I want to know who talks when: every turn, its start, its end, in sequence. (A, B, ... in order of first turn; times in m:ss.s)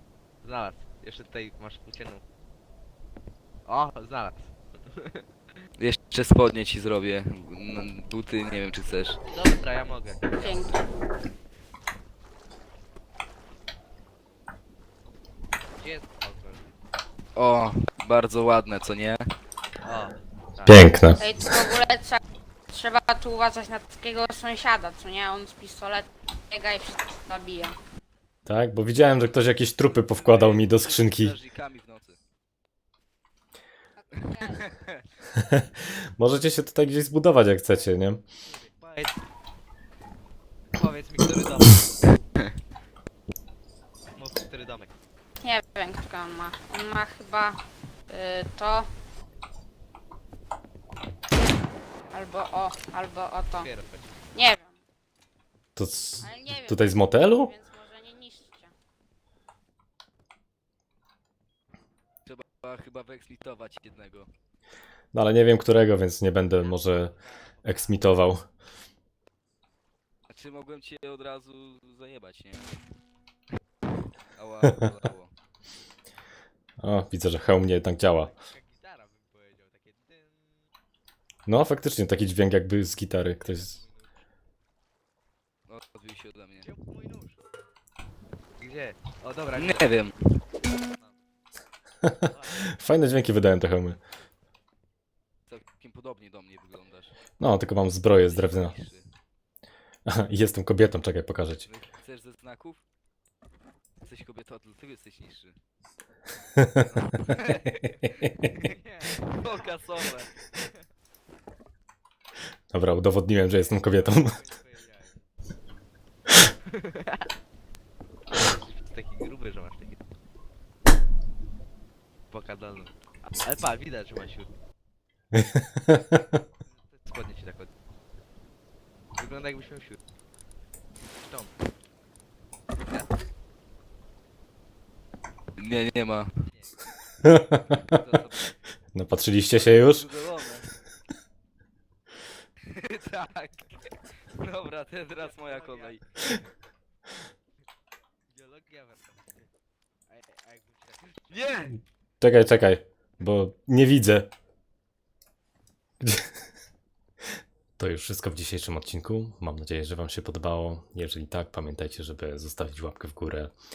0:00.4-0:02.2 A
0:03.6-0:05.2 A
0:05.8-0:09.2 B
0:09.2-0:10.6 A
0:10.4-0:10.8 C
0:15.8-0:16.7 A
0:17.4-0:19.2 B
0:19.8-0:20.8 A
0:20.6-0:21.3 D
0:21.2-0:27.8 C
0:28.4-0:31.4 D
0:30.1-0:32.2 B
0:34.1-0:34.7 C
0:34.2-0:35.0 B
0:35.3-0:38.2 D
0:38.4-0:39.2 A
0:40.7-0:41.9 A
0:44.1-0:44.9 A
0:45.4-0:48.9 C
0:52.1-0:53.7 C
0:53.6-0:54.2 A
0:54.3-0:54.8 C
0:55.8-0:57.5 D
0:56.2-0:58.7 C
1:02.2-1:04.3 B
1:05.1-1:08.4 D
1:06.6-1:08.3 A
1:10.3-1:12.9 B
1:14.3-1:15.3 B
1:16.8-1:18.3 D
1:18.1-1:20.6 A
1:21.4-1:23.8 D
1:23.4-1:24.2 A
1:25.7-1:26.7 B
1:26.6-1:27.4 A
1:28.6-1:30.0 A
1:29.5-1:30.2 B
1:30.6-1:31.2 A
1:32.2-1:32.7 A
1:32.7-1:34.0 D
1:35.5-1:37.2 B
1:37.4-1:38.8 D
1:38.1-1:39.1 B
1:40.0-1:41.7 D
1:41.6-1:42.8 B
1:44.0-1:45.6 B
1:46.7-1:48.7 B
1:48.5-1:50.8 A
1:49.2-1:50.3 B
1:52.7-1:54.4 D
1:53.4-1:55.2 A
1:56.6-1:57.3 A
1:58.3-2:00.0 A
2:02.3-2:04.5 A
2:05.3-2:06.2 D
2:06.6-2:07.7 A
2:09.1-2:10.0 A
2:11.2-2:11.5 A
2:12.8-2:13.2 A
2:15.6-2:16.3 B
2:16.4-2:16.8 A
2:17.2-2:18.0 D
2:17.7-2:18.6 B
2:18.9-2:20.1 D
2:19.5-2:20.8 B
2:22.6-2:26.1 B
2:25.1-2:26.4 A
2:28.3-2:29.5 A
2:30.1-2:31.6 A
2:31.3-2:31.8 B
2:32.2-2:34.3 D
2:36.0-2:36.3 D
2:37.8-2:43.5 D